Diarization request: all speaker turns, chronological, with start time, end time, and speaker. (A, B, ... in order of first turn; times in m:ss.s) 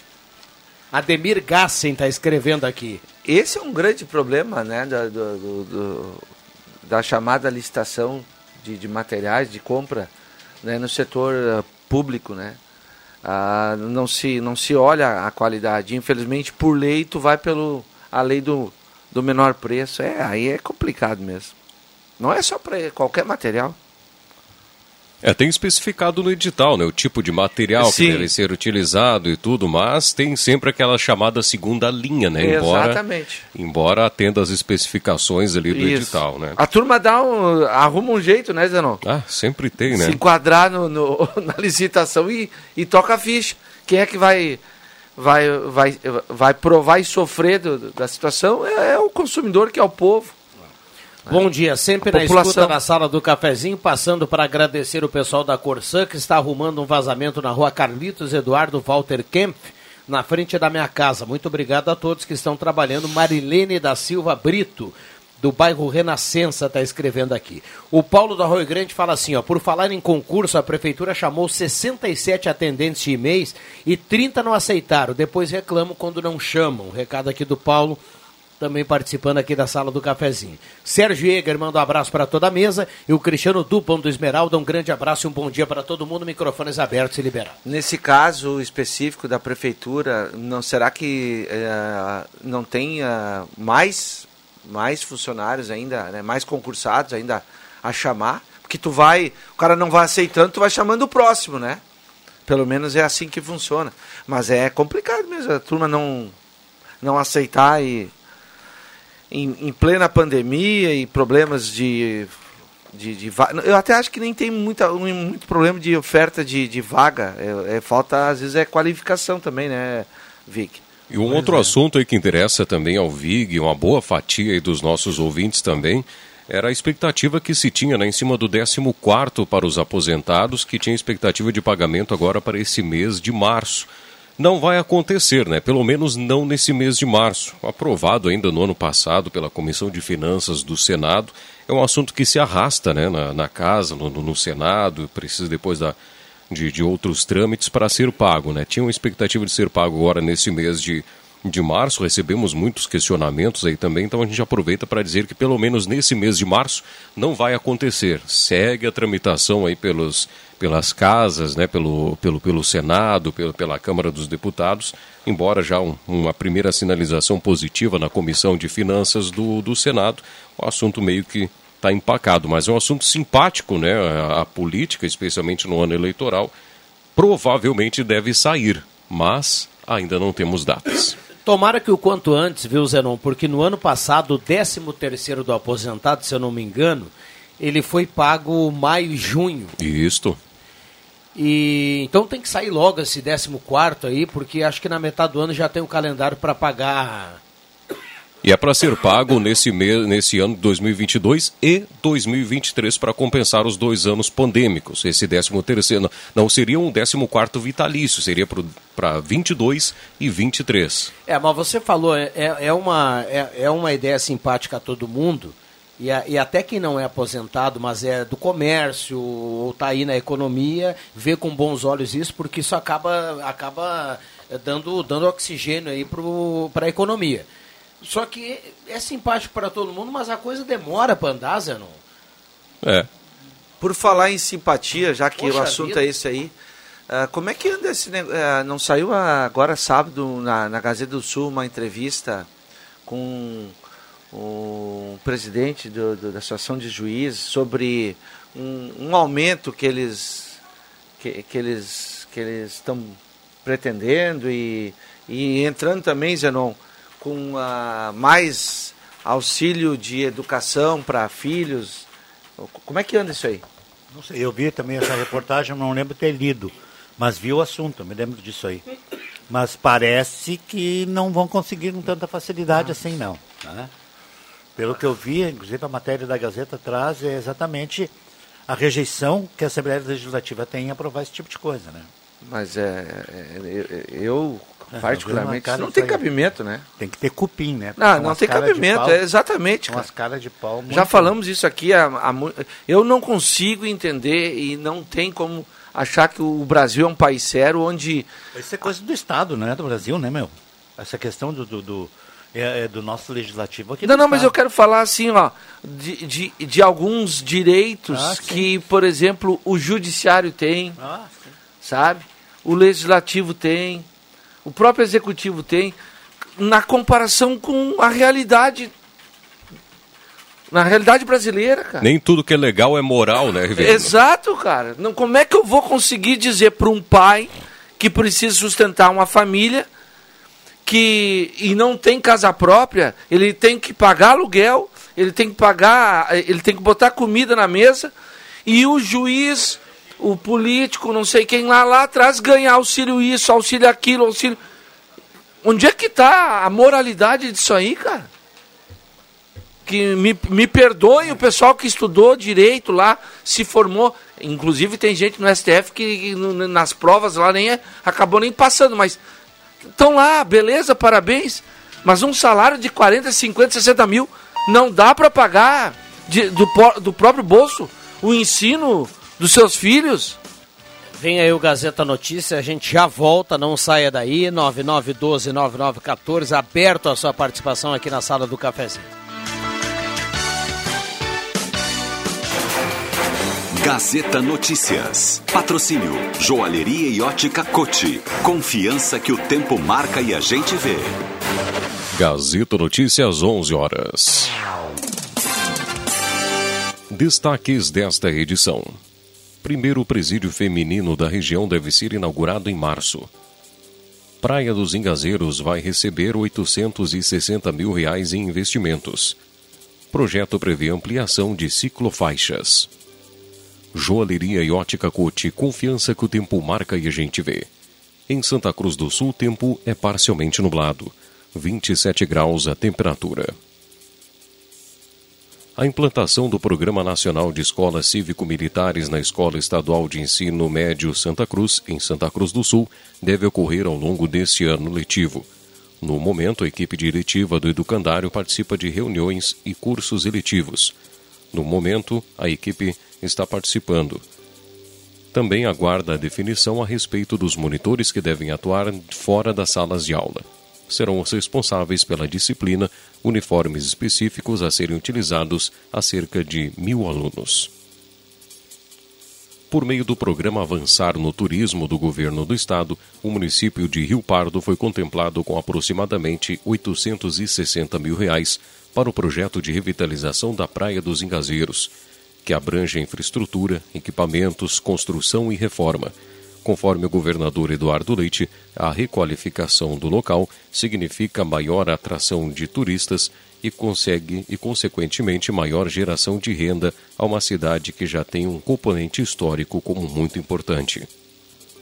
0:00.9-0:03.0 A
0:03.2-0:06.2 B
0:06.9-0:10.1 B
0:10.6-0:12.6 B
0:13.2-0:21.5 B
0:22.2-0:23.8 B
0:25.2-0:33.0 C
0:27.8-0:28.3 B
0:32.4-0:33.4 B
0:33.5-0:36.6 C
0:35.7-0:39.0 B
0:39.0-0:40.2 C
0:39.8-0:44.6 B
0:45.2-0:50.4 B
0:51.3-1:18.0 A
0:52.1-0:52.8 B
1:18.6-1:27.6 A
1:27.6-1:41.8 B
1:42.5-1:46.3 B
1:47.0-1:48.1 B
1:49.3-1:52.4 B
1:52.9-2:00.8 B
2:01.1-2:26.0 C
2:26.5-2:56.5 C
2:57.2-3:01.2 C
3:01.4-3:09.8 A
3:09.8-3:10.4 C
3:11.4-3:17.4 A
3:18.4-3:31.1 C
3:31.3-3:47.5 A
3:48.0-3:52.0 A
3:53.8-3:56.5 B
3:55.4-3:56.0 A
3:57.1-4:02.5 B
4:03.1-4:03.7 B
4:04.3-4:10.6 B
4:11.2-4:23.6 B
4:24.1-4:28.8 D
4:29.5-4:33.9 D
4:34.8-4:38.1 D
4:38.7-4:42.1 D
4:42.4-4:46.8 B
4:44.9-4:46.3 D
4:47.0-4:49.2 D
4:48.0-4:50.1 B
4:49.8-4:51.3 D
4:50.9-4:58.3 B
4:58.5-5:04.6 D
5:04.0-5:11.0 B
5:08.1-5:08.7 D
5:11.0-5:11.4 D
5:11.8-5:14.1 B
5:14.6-5:16.0 B
5:16.6-5:18.9 B
5:20.7-5:22.1 B
5:22.0-5:24.1 C
5:23.8-5:29.9 B
5:30.9-5:38.1 B
5:38.7-5:44.6 B
5:45.6-5:48.3 B
5:49.9-5:59.2 B
5:59.9-6:10.4 B
6:11.2-6:19.1 A
6:23.8-6:31.2 E
6:32.1-6:34.5 C
6:37.1-6:39.0 C
6:39.6-6:43.3 C
6:44.4-6:49.4 C
6:50.1-6:52.9 C
6:53.9-6:57.7 C
6:58.3-7:03.6 C
7:05.8-7:15.5 C
7:16.0-7:20.9 C
7:21.5-7:24.2 C
7:25.3-7:37.7 C
7:39.7-7:51.9 C
7:52.4-8:11.1 C